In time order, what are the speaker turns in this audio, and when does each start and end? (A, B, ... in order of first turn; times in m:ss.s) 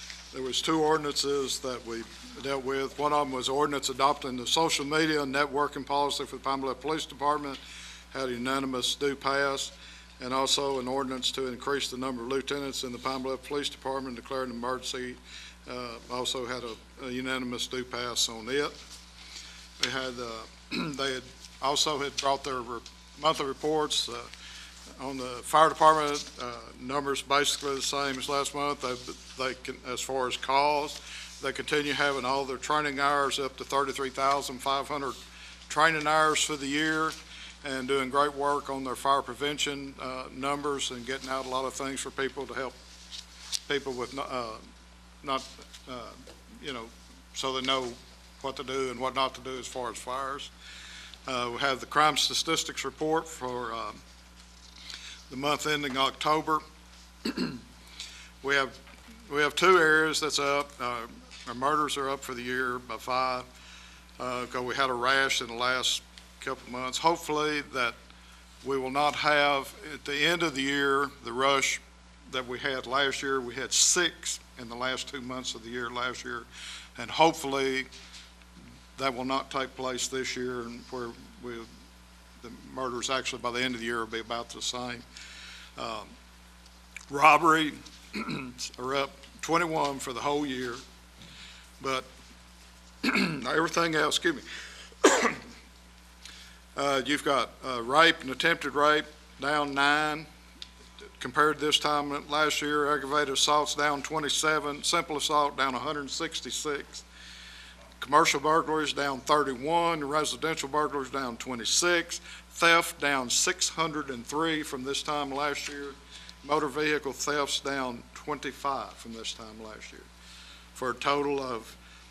0:00.3-0:07.6 A
0:08.1-0:18.7 A
0:19.8-0:24.3 A
0:25.0-0:35.2 A
0:35.7-0:42.8 A
0:43.7-0:44.6 A
0:45.2-0:50.5 A
0:51.3-0:54.0 A
0:55.3-0:56.6 A
0:57.2-0:57.6 A
0:58.4-0:58.8 A
0:59.3-1:03.5 A
1:04.2-1:08.0 A
1:08.6-1:17.9 A
1:19.0-1:21.7 A
1:22.4-1:25.0 A
1:25.8-1:26.1 A
1:27.1-1:30.8 A
1:31.8-1:32.1 A
1:33.0-1:34.4 A
1:35.0-1:35.4 A
1:36.8-1:40.3 A
1:41.2-1:47.0 A
1:48.0-2:00.1 A
2:00.8-2:01.8 A